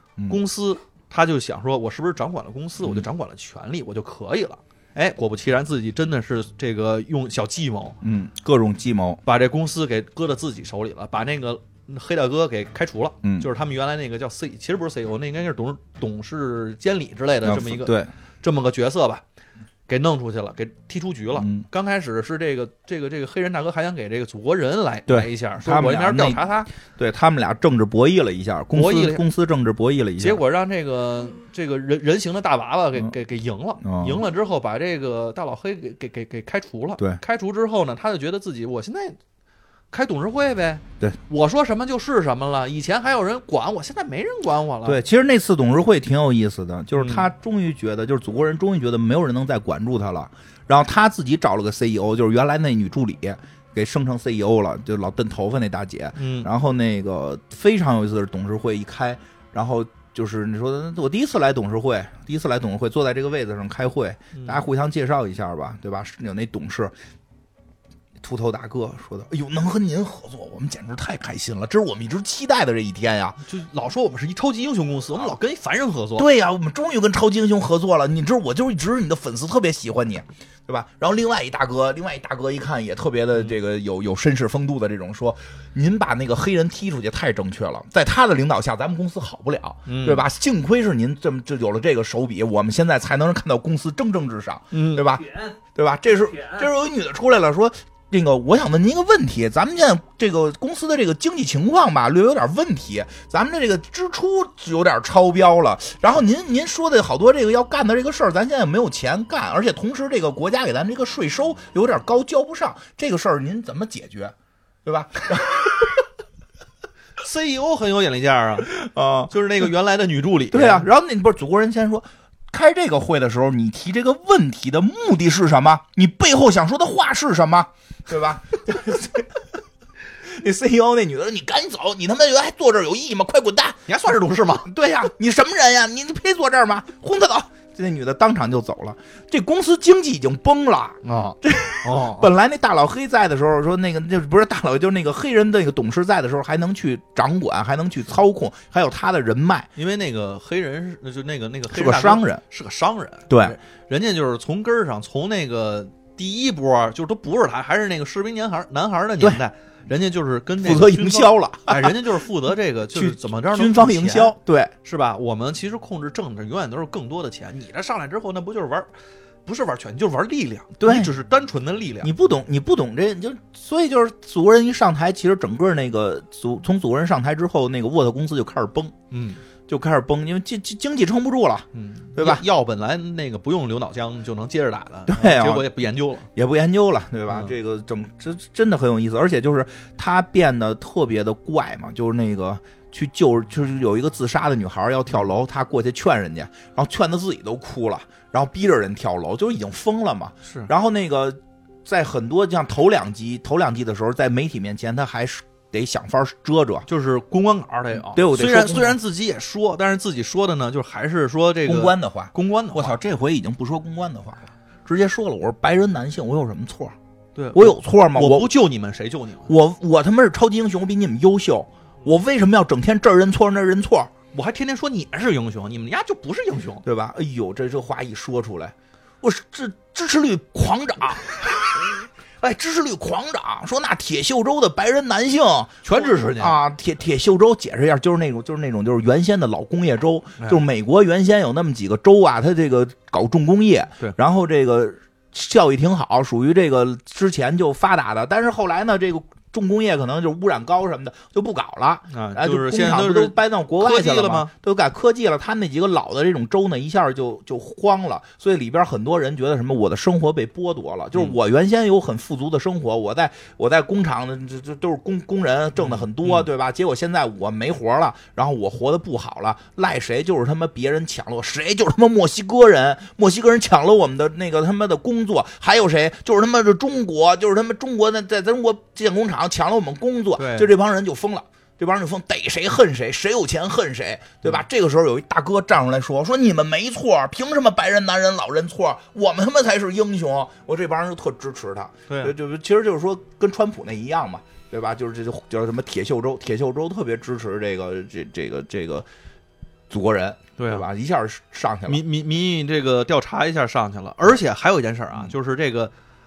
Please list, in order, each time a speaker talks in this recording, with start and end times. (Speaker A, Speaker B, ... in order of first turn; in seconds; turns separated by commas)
Speaker A: 0.3-8.0, Speaker B: 8.0-9.2, Speaker A: 9.2-19.2, Speaker B: 13.2-13.5, Speaker B: 17.4-18.1, Speaker A: 19.9-26.7, Speaker B: 21.4-21.6, Speaker B: 25.1-30.4, Speaker A: 28.7-29.2, Speaker A: 30.2-39.2, Speaker B: 33.8-34.2, Speaker A: 39.9-45.0, Speaker B: 44.8-66.9, Speaker A: 47.0-47.3, Speaker A: 56.2-56.5, Speaker A: 64.3-64.6, Speaker B: 68.2-73.4, Speaker A: 73.4-76.3, Speaker B: 76.2-116.0, Speaker A: 89.9-90.2, Speaker A: 94.7-95.1, Speaker A: 117.2-120.9, Speaker B: 118.7-119.3, Speaker B: 120.5-129.4, Speaker B: 130.2-133.8, Speaker A: 133.9-134.7, Speaker B: 134.6-149.7, Speaker A: 141.0-142.3, Speaker A: 149.8-168.9, Speaker B: 151.7-152.4, Speaker B: 153.3-153.6, Speaker B: 160.6-162.1, Speaker B: 162.9-164.7, Speaker A: 169.4-172.1, Speaker B: 170.8-171.1, Speaker B: 172.0-178.9, Speaker A: 179.1-179.4, Speaker B: 179.7-182.4, Speaker A: 181.7-186.3, Speaker B: 185.1-185.7, Speaker B: 186.3-206.9, Speaker A: 200.4-200.7, Speaker A: 206.9-213.0, Speaker B: 208.0-209.0, Speaker B: 211.6-216.9, Speaker A: 217.3-219.5, Speaker B: 217.5-218.5, Speaker B: 219.5-224.1, Speaker A: 224.3-226.8, Speaker B: 226.8-299.1, Speaker A: 235.8-236.6, Speaker A: 252.1-254.5, Speaker A: 265.8-266.4, Speaker A: 280.4-280.7, Speaker A: 292.1-292.3, Speaker B: 299.9-302.0, Speaker A: 300.6-300.9, Speaker A: 301.9-305.9